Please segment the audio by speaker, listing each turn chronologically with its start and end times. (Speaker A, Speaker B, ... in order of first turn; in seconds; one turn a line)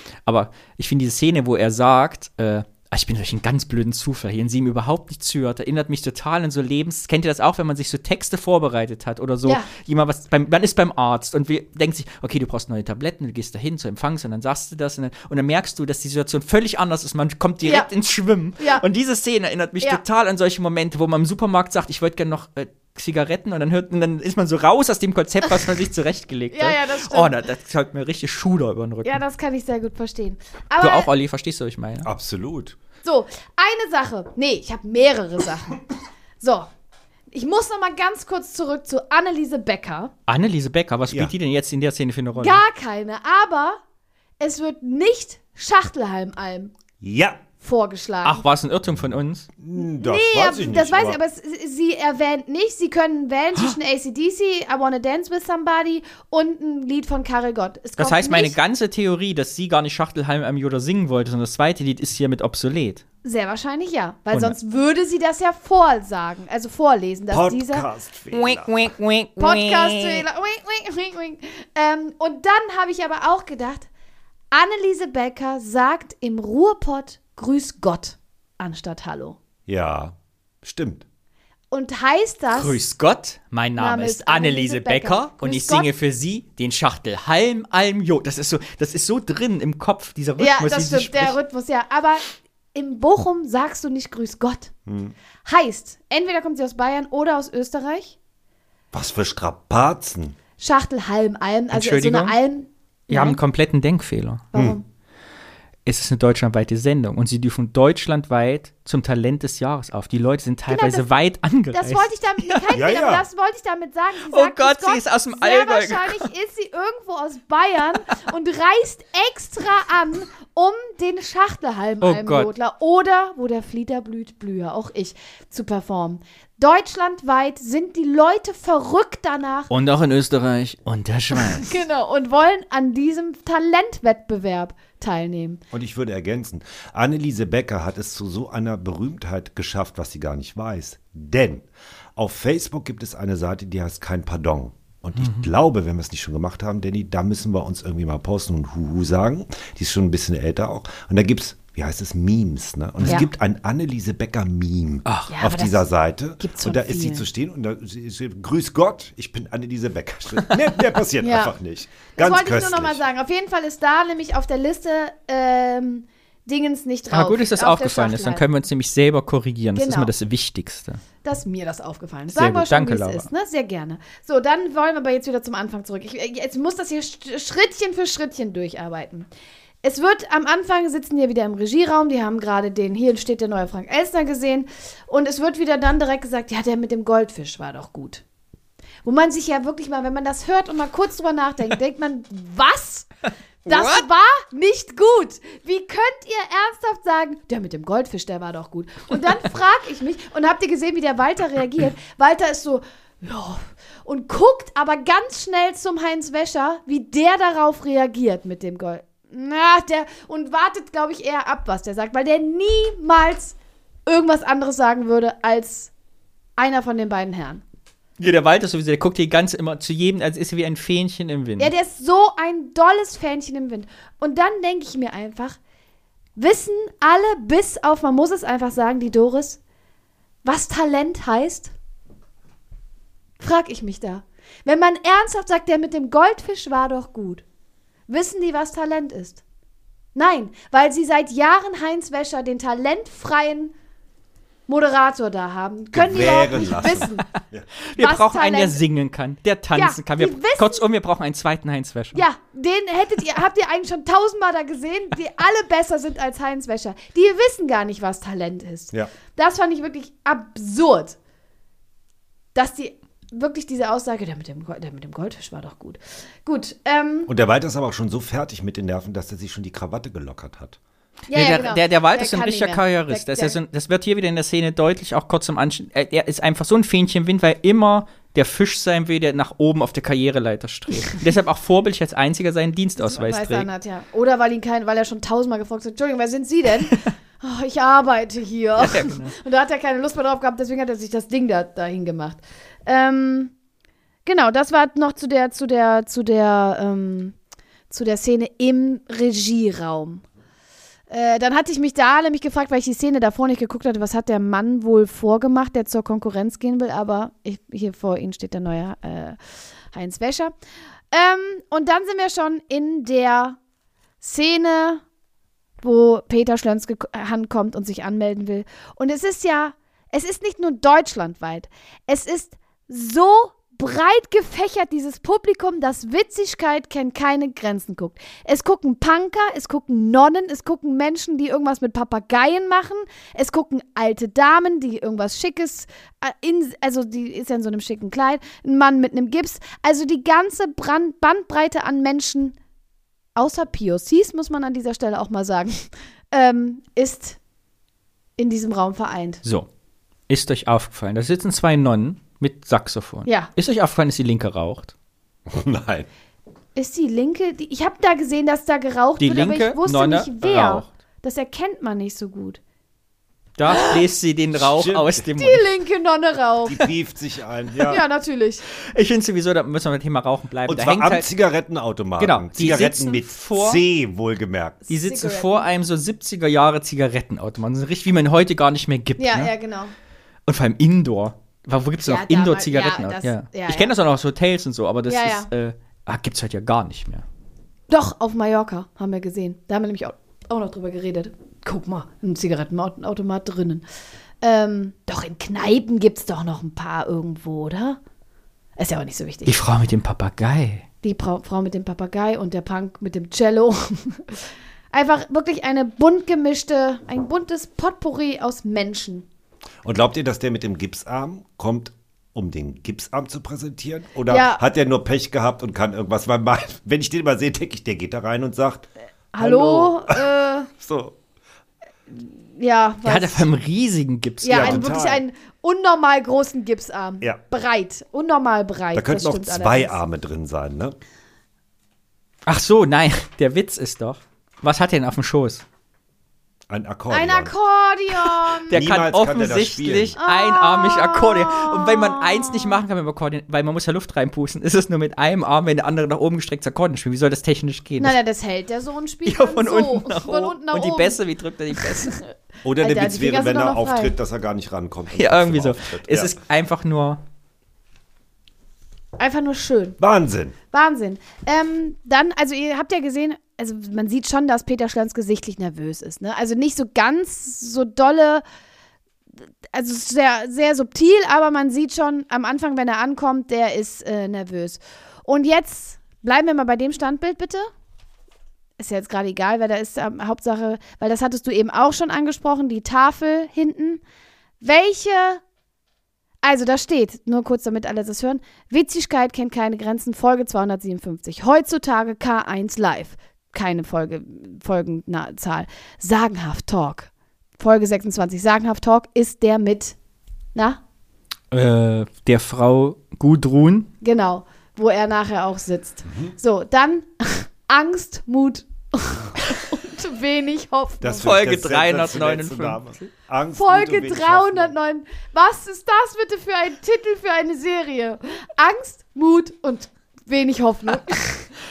Speaker A: 0.2-29.2
Speaker B: 18.6-18.8
Speaker B: 26.5-27.3
Speaker B: 29.0-31.1
Speaker A: 30.8-32.1
Speaker C: 32.0-32.8
Speaker B: 33.0-35.8
Speaker B: 36.4-36.7
Speaker B: 37.3-40.1
Speaker A: 40.3-42.6
Speaker B: 42.3-43.8
Speaker B: 44.4-46.7
Speaker C: 47.0-47.4
Speaker B: 47.6-48.4
Speaker A: 48.2-49.5
Speaker C: 49.6-51.2
Speaker B: 49.8-58.5
Speaker A: 58.0-63.0
Speaker B: 63.2-67.8
Speaker C: 67.3-68.7
Speaker A: 68.3-70.2
Speaker B: 69.4-73.9
Speaker B: 74.5-79.4
Speaker C: 79.7-81.0
Speaker B: 81.7-82.8
Speaker A: 82.5-91.3
Speaker B: 83.8-85.9
Speaker B: 90.4-94.7
Speaker C: 94.9-95.1
Speaker B: 95.4-98.2
Speaker C: 98.9-100.3
Speaker B: 100.6-103.4
Speaker A: 101.7-102.3
Speaker A: 103.1-104.5
Speaker B: 104.5-104.8
Speaker C: 104.5-104.8
Speaker A: 105.8-112.7
Speaker B: 110.7-111.0
Speaker B: 111.7-129.7
Speaker C: 112.7-113.2
Speaker A: 114.2-116.3
Speaker A: 122.0-122.5
Speaker A: 129.7-131.8
Speaker B: 131.4-135.6
Speaker C: 135.7-163.0
Speaker A: 145.2-145.5
Speaker A: 155.1-155.3
Speaker B: 155.3-155.8
Speaker B: 156.4-157.2
Speaker B: 161.2-161.5
Speaker B: 162.2-168.4
Speaker A: 167.1-171.0
Speaker B: 169.7-170.1
Speaker B: 171.2-179.3
Speaker A: 172.3-173.3
Speaker B: 179.8-188.2
Speaker B: 189.0-193.1
Speaker B: 193.6-213.5
Speaker A: 193.7-194.1
Speaker B: 214.1-215.9
Speaker B: 216.6-217.6
Speaker A: 218.2-221.7
Speaker B: 221.6-225.6
Speaker B: 226.3-229.6
Speaker B: 230.4-231.7
Speaker B: 233.4-237.4
Speaker B: 238.1-239.4
Speaker B: 240.1-243.7
Speaker B: 244.7-247.3
Speaker C: 245.9-247.7
Speaker A: 247.8-252.2
Speaker B: 247.9-248.8
Speaker B: 249.7-250.8
Speaker B: 252.1-261.2
Speaker B: 262.5-267.3
Speaker C: 267.3-270.8
Speaker B: 271.3-273.6
Speaker A: 271.3-283.7
Speaker B: 283.0-293.5
Speaker A: 288.8-289.3
Speaker B: 294.2-297.3
Speaker B: 297.9-300.2
Speaker B: 301.1-309.4
Speaker B: 309.9-310.5
Speaker B: 311.1-313.6
Speaker B: 314.2-315.0
Speaker B: 315.8-342.5
Speaker B: 343.4-347.4
Speaker B: 348.4-349.4
Speaker A: 350.3-354.9
Speaker B: 353.2-353.5
Speaker C: 355.5-356.1
Speaker B: 356.8-362.6
Speaker A: 359.2-360.9
Speaker A: 363.6-365.6
Speaker B: 363.7-364.0
Speaker C: 364.6-365.2
Speaker B: 365.4-366.8
Speaker C: 366.7-368.0
Speaker B: 367.9-368.6
Speaker A: 368.7-371.3
Speaker C: 370.7-374.8
Speaker A: 372.2-373.8
Speaker B: 374.9-375.7
Speaker A: 374.9-379.5
Speaker B: 379.2-379.9
Speaker A: 380.4-387.2
Speaker B: 382.0-383.9
Speaker B: 385.1-385.5
Speaker B: 387.9-393.8
Speaker B: 394.4-398.0
Speaker B: 398.8-399.6
Speaker A: 399.4-400.9
Speaker B: 401.0-409.2
Speaker C: 409.8-421.1
Speaker B: 414.3-414.6
Speaker B: 419.3-420.7
Speaker B: 422.1-423.5
Speaker A: 423.0-424.9
Speaker B: 424.4-430.0
Speaker C: 424.5-425.2
Speaker C: 428.9-430.9
Speaker A: 432.4-435.6
Speaker C: 436.7-437.5
Speaker B: 437.1-438.8
Speaker A: 438.7-448.2
Speaker C: 438.7-440.2
Speaker B: 440.2-442.8
Speaker B: 448.0-451.2
Speaker A: 449.2-452.2
Speaker B: 451.8-452.2
Speaker C: 452.6-456.3
Speaker B: 452.8-454.1
Speaker A: 455.1-457.2
Speaker B: 459.2-460.0
Speaker C: 460.0-460.5
Speaker B: 460.7-468.4
Speaker B: 469.7-477.7
Speaker B: 478.8-484.0
Speaker B: 484.6-485.4
Speaker B: 486.4-499.9
Speaker B: 500.5-500.8
Speaker A: 501.5-503.9
Speaker B: 504.0-511.3
Speaker C: 511.0-514.7
Speaker A: 511.2-513.1
Speaker B: 513.5-521.5